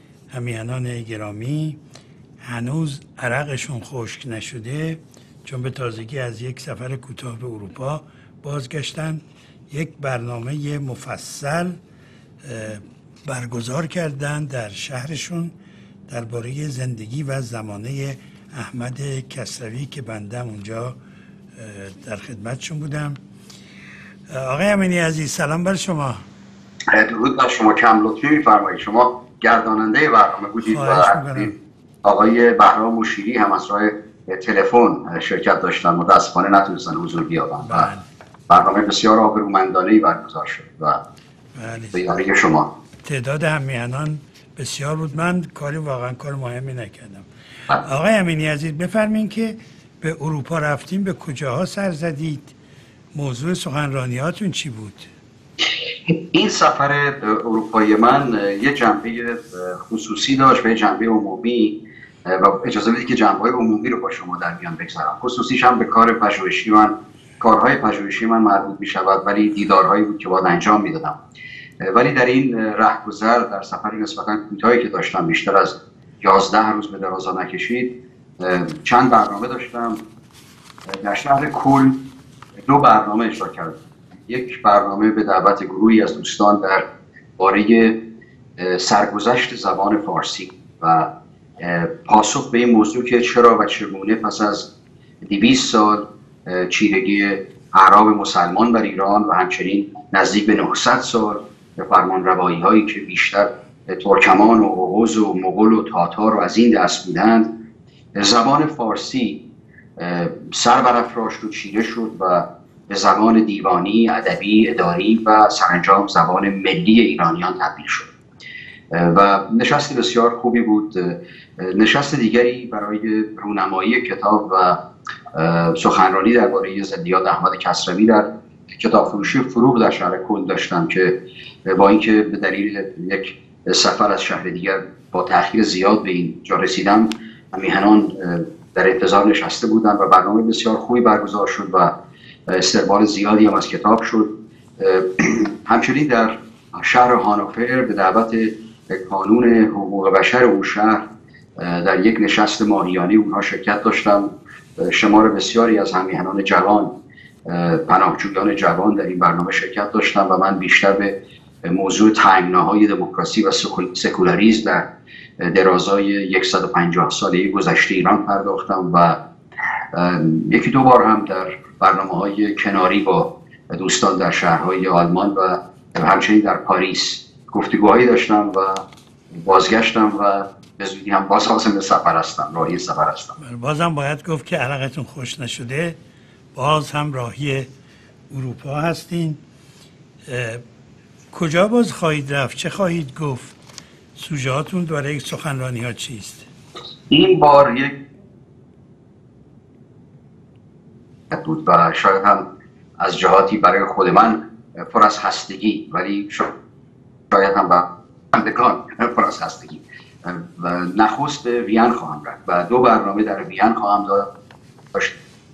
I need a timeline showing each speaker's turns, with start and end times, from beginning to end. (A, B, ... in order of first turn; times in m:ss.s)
0:00.3-0:01.8 A
0:02.4-0:11.8 A
0:12.4-0:15.5 A
0:16.1-0:21.0 A
0:21.6-0:23.2 A
0:24.3-0:26.2 A
0:26.9-0:31.5 B
0:30.6-0:31.6 A
0:32.0-0:37.9 B
0:37.6-0:38.0 A
0:38.5-0:41.0 B
0:41.6-0:42.0 A
0:41.9-0:42.7 B
0:43.0-0:52.5 A
0:53.1-0:55.1 A
0:56.1-1:11.2 B
1:11.8-1:20.0 B
1:20.9-1:22.0 B
1:22.6-1:26.9 B
1:27.4-1:28.0 B
1:28.6-1:34.7 B
1:35.2-1:47.5 B
1:48.2-1:49.4 B
1:50.0-1:58.1 B
1:58.9-2:04.8 B
2:05.3-2:11.2 B
2:11.7-2:21.9 B
2:22.5-2:31.1 B
2:31.6-2:36.9 B
2:37.5-2:44.9 B
2:45.4-2:49.2 B
2:49.9-3:03.4 B
3:03.4-3:06.0 A
3:06.5-3:07.7 A
3:08.3-3:09.4 A
3:10.3-3:10.6 A
3:11.3-3:13.6 A
3:14.2-3:16.5 A
3:17.1-3:18.0 B
3:21.3-3:22.4 B
3:23.0-3:26.5 B
3:27.3-3:34.3 B